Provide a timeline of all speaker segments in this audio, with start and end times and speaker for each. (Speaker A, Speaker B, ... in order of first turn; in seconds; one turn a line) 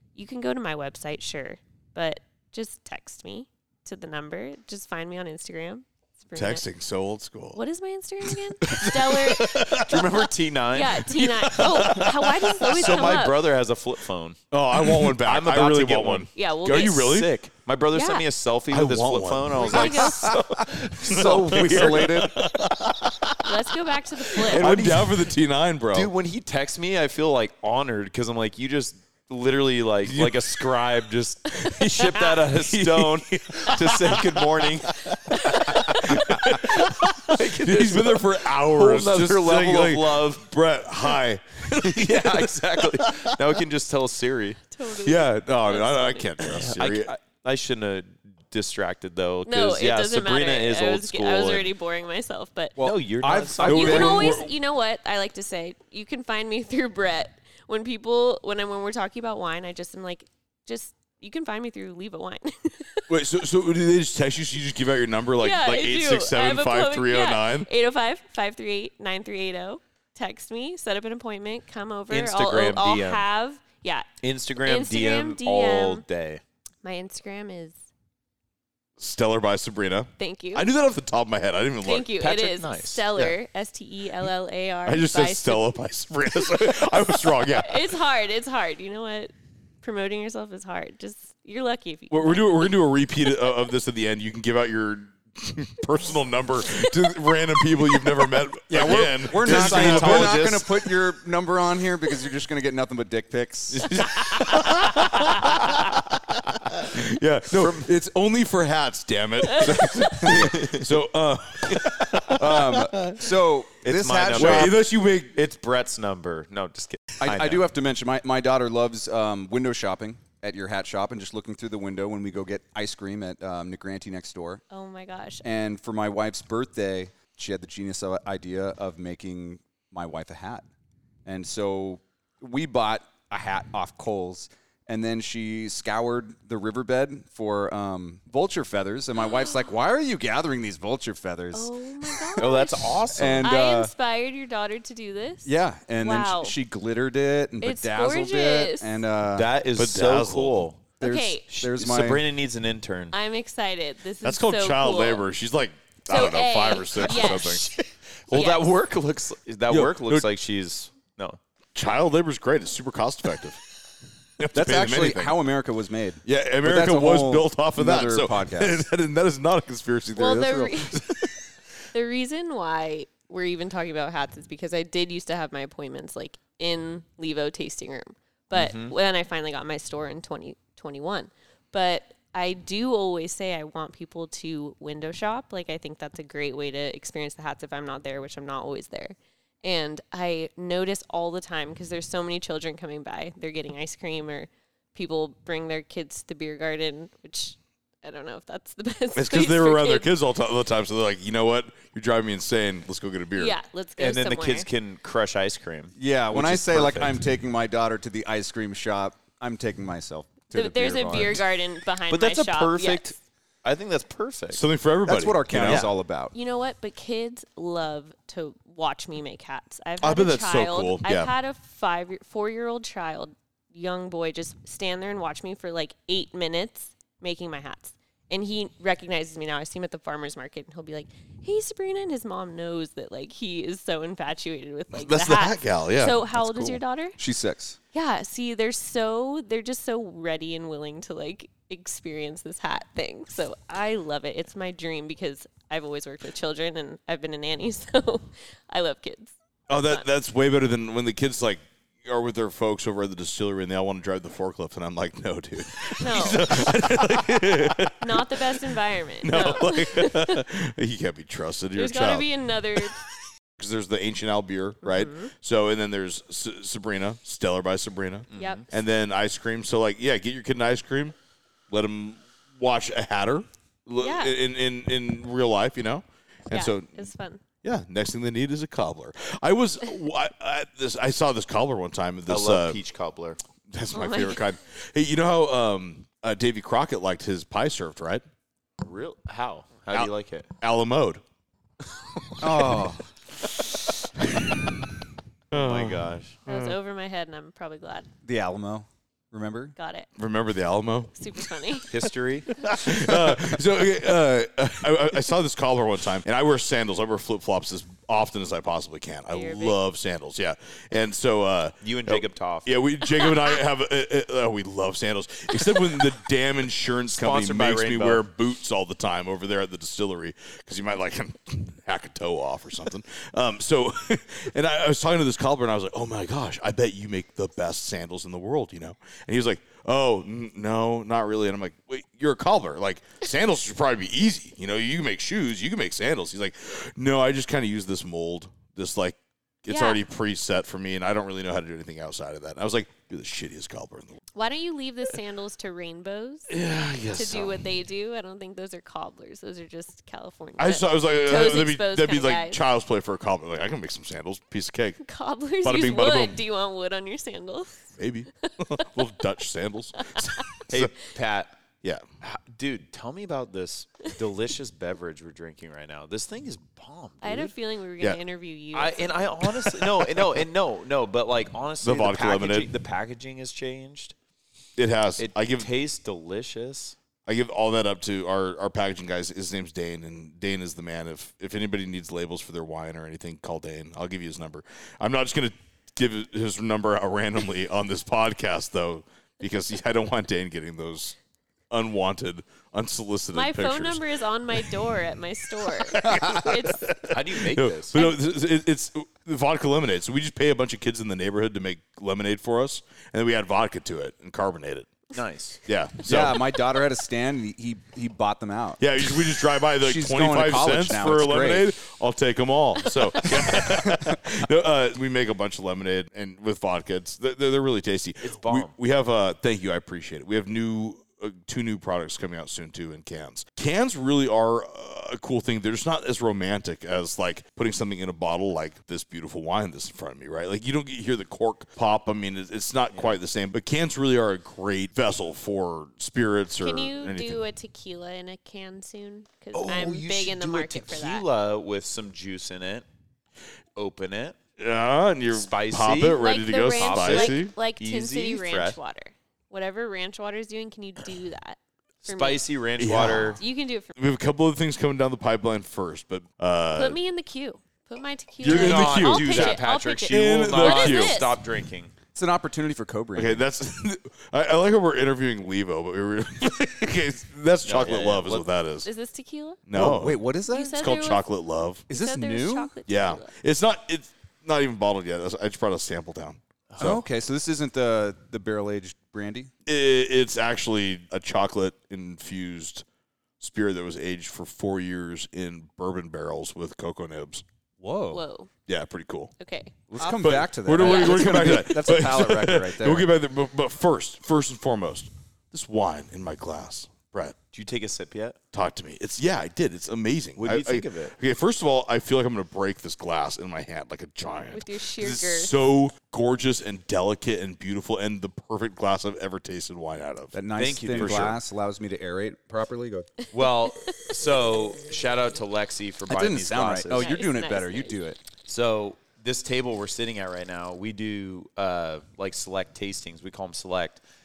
Speaker A: 0.1-6.6
Speaker B: 6.3-7.6
Speaker A: 7.5-9.9
Speaker B: 8.3-10.1
Speaker C: 9.8-11.0
Speaker A: 10.7-13.5
Speaker B: 11.0-13.2
Speaker C: 12.7-14.4
Speaker B: 14.5-17.3
Speaker C: 15.2-22.1
Speaker A: 16.3-17.2
Speaker A: 17.9-18.2
Speaker B: 18.7-20.4
Speaker A: 19.5-20.4
Speaker D: 21.0-22.4
Speaker B: 21.0-23.5
Speaker A: 23.4-24.7
Speaker B: 24.3-26.1
Speaker C: 24.5-25.1
Speaker C: 25.9-35.0
Speaker B: 30.1-30.6
Speaker B: 31.6-43.3
Speaker A: 35.3-36.3
Speaker C: 36.1-40.5
Speaker C: 41.8-44.6
Speaker A: 44.7-46.4
Speaker B: 44.9-47.1
Speaker C: 46.5-51.7
Speaker A: 49.5-52.8
Speaker D: 52.8-54.5
Speaker C: 52.8-54.3
Speaker A: 53.6-63.1
Speaker B: 53.7-54.5
Speaker B: 63.1-67.7
Speaker A: 65.4-74.1
Speaker C: 72.1-73.2
Speaker C: 74.2-76.4
Speaker A: 74.6-76.0
Speaker A: 76.8-77.8
Speaker B: 79.0-82.1
Speaker A: 80.2-80.7
Speaker A: 81.8-85.8
Speaker C: 82.2-83.1
Speaker B: 84.8-87.9
Speaker A: 86.5-92.8
Speaker B: 92.1-100.7
Speaker D: 98.7-104.1
Speaker C: 99.4-100.6
Speaker B: 103.7-113.3
Speaker C: 107.6-107.9
Speaker A: 109.6-110.3
Speaker D: 110.0-110.6
Speaker C: 110.2-110.9
Speaker D: 112.3-114.8
Speaker C: 113.8-117.7
Speaker B: 114.3-115.4
Speaker D: 117.2-124.6
Speaker A: 124.7-125.4
Speaker D: 125.4-130.7
Speaker D: 131.2-142.4
Speaker A: 139.2-139.6
Speaker A: 141.5-146.6
Speaker C: 142.4-143.5
Speaker D: 143.1-143.9
Speaker D: 145.4-149.5
Speaker A: 147.6-149.0
Speaker C: 149.3-150.8
Speaker B: 149.8-150.7
Speaker A: 151.0-151.5
Speaker D: 151.0-152.2
Speaker C: 151.5-153.1
Speaker A: 153.1-155.2
Speaker B: 154.2-157.7
Speaker A: 156.1-157.7
Speaker C: 157.3-161.4
Speaker A: 158.3-158.7
Speaker B: 159.7-160.3
Speaker B: 161.7-163.6
Speaker B: 164.4-165.4
Speaker D: 164.5-168.8
Speaker B: 166.2-171.4
Speaker A: 170.1-171.1
Speaker A: 171.9-200.1
Speaker C: 178.5-178.9
Speaker B: 199.1-203.5
Speaker A: 203.3-204.7
Speaker C: 204.0-207.2
Speaker D: 205.9-211.4
Speaker A: 210.5-213.1
Speaker C: 212.1-214.6
Speaker B: 214.5-215.8
Speaker D: 215.0-216.3
Speaker C: 215.6-215.9
Speaker A: 216.3-237.2
Speaker B: 220.0-221.3
Speaker B: 234.9-236.8
Speaker D: 237.2-237.8
Speaker A: 237.9-250.1
Speaker B: 249.7-258.6
Speaker A: 256.0-256.7
Speaker A: 258.0-260.4
Speaker B: 259.2-271.1
Speaker A: 261.7-262.9
Speaker A: 264.8-265.3
Speaker C: 268.3-268.6
Speaker A: 268.4-268.6
Speaker B: 271.7-277.1
Speaker A: 274.0-274.3
Speaker A: 276.5-277.4
Speaker B: 277.6-282.8
Speaker C: 282.3-283.4
Speaker B: 283.7-288.2
Speaker A: 283.9-284.4
Speaker C: 288.8-290.5
Speaker B: 289.9-291.2
Speaker B: 292.1-292.8
Speaker D: 292.4-293.0
Speaker B: 293.4-294.9
Speaker C: 295.5-296.4
Speaker B: 295.5-296.7
Speaker A: 296.5-298.1
Speaker D: 298.2-299.7
Speaker A: 299.8-300.1
Speaker B: 300.2-301.9
Speaker A: 301.1-301.9
Speaker C: 301.9-302.5
Speaker B: 302.5-344.2
Speaker A: 309.3-309.8
Speaker C: 311.8-312.7
Speaker C: 317.1-318.2
Speaker A: 339.7-340.0
Speaker A: 344.3-346.5
Speaker B: 346.5-347.6
Speaker A: 347.1-352.6
Speaker B: 350.6-355.0
Speaker A: 355.0-357.9
Speaker B: 355.6-356.4
Speaker B: 358.0-360.9
Speaker A: 358.4-358.9
Speaker C: 360.7-361.5
Speaker C: 362.2-367.5
Speaker A: 367.2-369.3
Speaker C: 368.7-374.1
Speaker B: 369.4-370.3
Speaker B: 371.8-372.7
Speaker B: 374.8-375.7
Speaker C: 375.2-376.9
Speaker B: 377.2-391.2
Speaker B: 391.7-394.0
Speaker A: 393.3-397.0
Speaker B: 395.8-404.9
Speaker C: 397.1-398.0
Speaker A: 397.9-398.2
Speaker C: 405.1-405.6
Speaker B: 405.6-406.5
Speaker D: 406.0-408.9
Speaker B: 408.8-437.4
Speaker D: 409.8-411.7
Speaker D: 413.9-414.1
Speaker C: 418.2-418.7
Speaker C: 432.9-433.2
Speaker A: 436.6-441.2
Speaker C: 439.5-442.9
Speaker C: 443.8-444.4
Speaker B: 444.6-447.5
Speaker C: 445.3-448.8
Speaker A: 446.1-452.4
Speaker C: 452.0-453.4
Speaker B: 452.8-453.4
Speaker A: 453.4-453.9
Speaker B: 453.9-457.0
Speaker A: 456.7-461.4
Speaker B: 458.4-461.2
Speaker C: 458.4-461.9
Speaker D: 462.1-463.4
Speaker B: 463.1-468.9
Speaker C: 467.6-468.5
Speaker A: 468.8-469.6
Speaker B: 469.7-470.2
Speaker D: 469.7-470.9
Speaker A: 470.5-471.2
Speaker B: 470.8-471.8
Speaker D: 471.9-472.7
Speaker A: 471.9-473.3
Speaker B: 472.9-477.0
Speaker C: 476.7-477.0
Speaker D: 476.8-479.5
Speaker B: 479.6-482.8
Speaker B: 483.4-487.4
Speaker D: 487.8-488.2
Speaker A: 488.1-488.5
Speaker B: 488.7-489.3
Speaker A: 489.4-491.7
Speaker D: 489.9-493.1
Speaker B: 490.2-497.4
Speaker C: 497.5-498.4
Speaker B: 498.5-511.4
Speaker C: 500.4-501.1
Speaker A: 504.5-505.5
Speaker D: 510.3-513.1
Speaker C: 510.6-511.4
Speaker C: 513.3-517.1
Speaker A: 513.4-514.1
Speaker D: 516.1-518.2
Speaker A: 517.0-518.0
Speaker C: 518.5-524.0